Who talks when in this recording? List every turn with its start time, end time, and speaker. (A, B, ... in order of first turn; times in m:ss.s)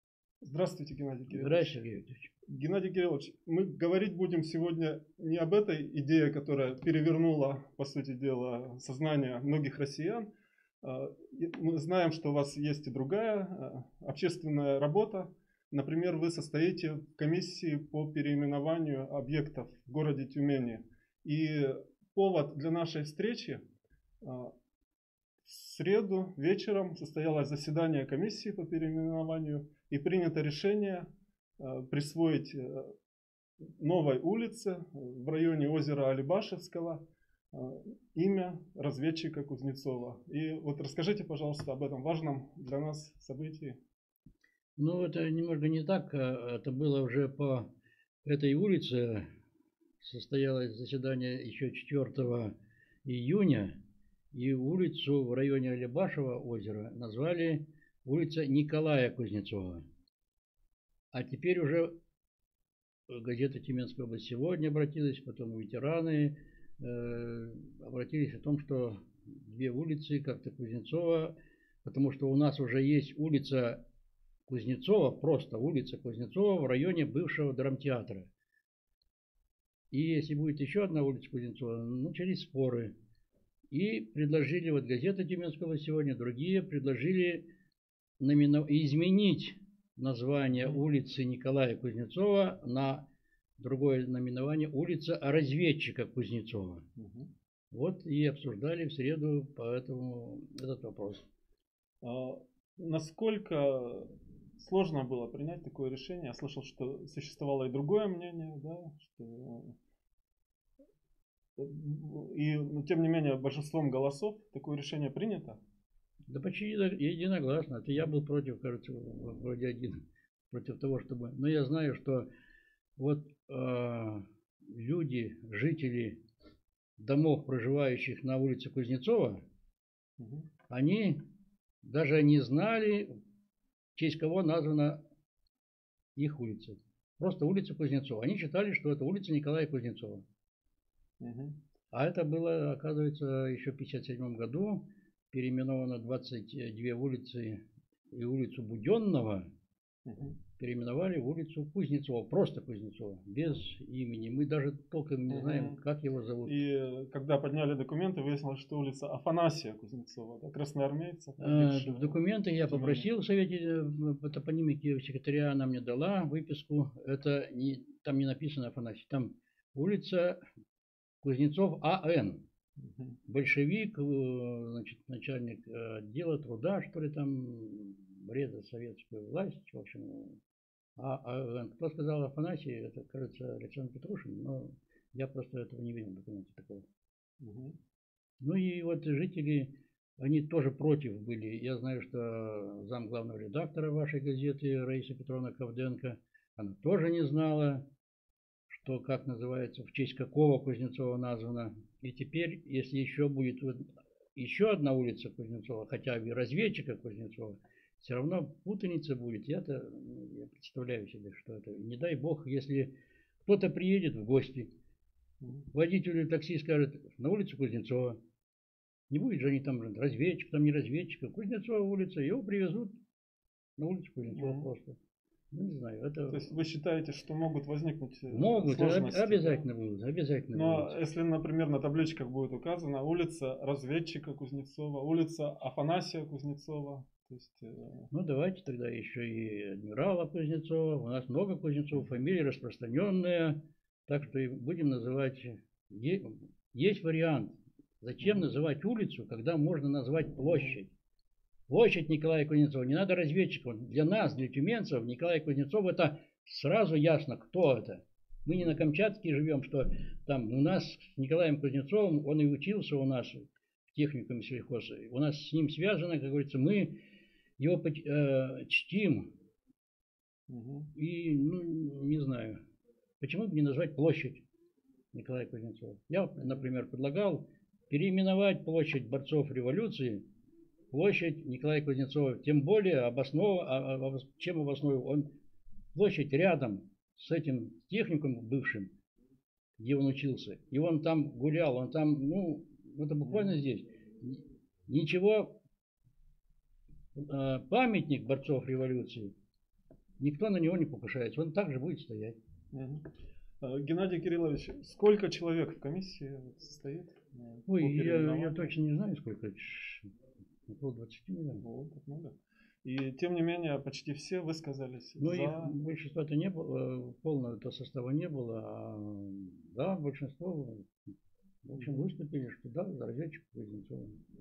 0:00.4-0:01.7 A
0:01.3-0:02.3 B
0:02.5-0:10.3 A
0:10.8-0:23.6 A
0:24.2-0:24.5 A
0:25.4-0:31.1 A
0:31.6-0:32.9 A
0:33.6-0:43.8 A
0:44.8-0:47.7 B
0:48.2-0:49.3 B
0:50.0-0:52.5 B
0:53.0-0:53.8 B
0:54.3-0:59.8 B
1:01.1-1:01.9 B
1:03.1-1:13.8 B
1:14.5-1:18.3 B
1:19.9-1:23.0 B
1:23.7-1:27.4 B
1:28.2-1:33.0 B
1:30.5-1:30.8 A
1:33.6-1:36.8 B
1:37.0-1:37.3 A
1:37.7-1:41.2 B
1:42.0-1:49.8 A
1:51.6-1:55.6 A
1:56.3-2:02.3 B
2:03.0-2:06.2 B
2:07.0-2:09.4 B
2:10.2-2:10.5 A
2:10.7-2:11.2 B
2:11.8-2:13.1 B
2:14.0-2:15.0 B
2:16.2-2:20.2 B
2:21.2-2:21.6 A
2:21.9-2:29.5 B
2:30.0-2:30.4 A
2:30.6-2:36.6 B
2:35.3-2:35.8 A
2:36.4-2:43.0 A
2:41.4-2:50.4 B
2:51.2-2:52.4 B
2:52.8-2:53.2 A
2:53.3-3:00.4 B
3:01.0-3:06.8 B
3:07.4-3:07.8 A
3:08.4-3:17.8 B
3:18.7-3:32.9 B
3:33.4-3:34.7 B
3:35.7-3:38.2 B
3:39.1-3:43.0 B
3:43.8-3:45.0 B
3:44.3-3:44.7 A
3:45.5-3:46.5 B
3:46.3-3:49.6 A
3:48.3-3:51.0 B
3:50.5-3:58.1 A
3:58.1-4:10.9 B
4:08.2-4:08.5 A
4:10.4-4:10.7 A
4:11.7-4:27.0 B
4:27.6-4:29.3 B
4:30.5-4:30.9 A
4:31.0-4:32.6 B
4:33.2-4:34.4 B
4:35.1-4:40.2 B
4:36.4-4:36.7 A
4:40.9-4:45.3 B
4:45.9-4:48.9 B
4:49.8-4:55.6 B
4:53.2-4:53.6 A
4:57.2-4:59.3 B
5:00.2-5:02.4 B
5:02.7-5:03.0 A
5:03.6-5:08.7 A
5:07.7-5:10.1 B
5:10.7-5:11.6 B
5:11.6-5:15.7 A
5:15.2-5:20.9 B
5:21.6-5:24.2 B
5:21.7-5:22.1 A